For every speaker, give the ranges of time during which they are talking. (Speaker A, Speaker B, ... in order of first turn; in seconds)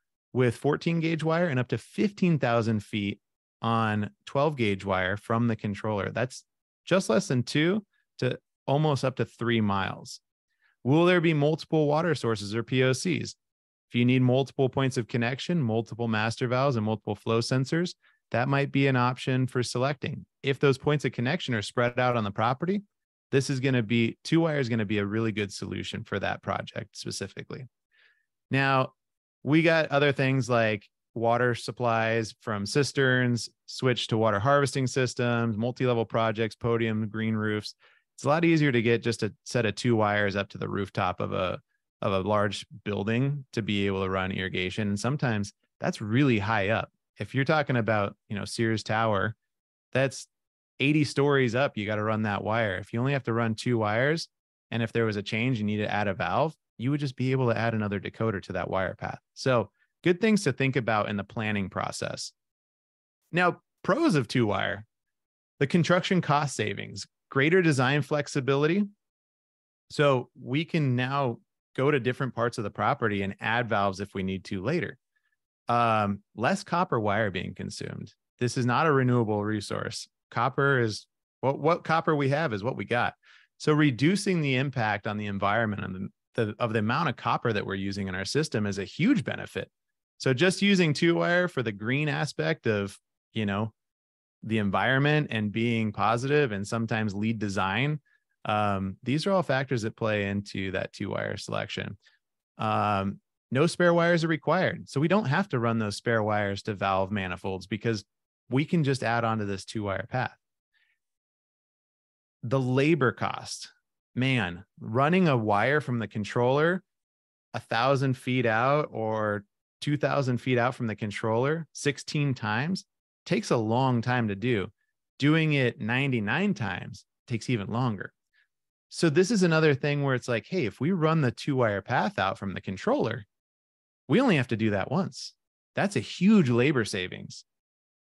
Speaker A: 0.3-10.2, 10.8-13.4, 13.9-27.7, 28.5-28.9, 29.4-49.4, 49.9-50.3, 50.8-62.3, 63.3-64.9, 65.6-68.9, 69.9-75.0, 75.7-93.7, 94.4-102.0, 102.6-110.4, 112.4-116.8, 117.5-128.1, 128.9-133.3, 134.1-137.4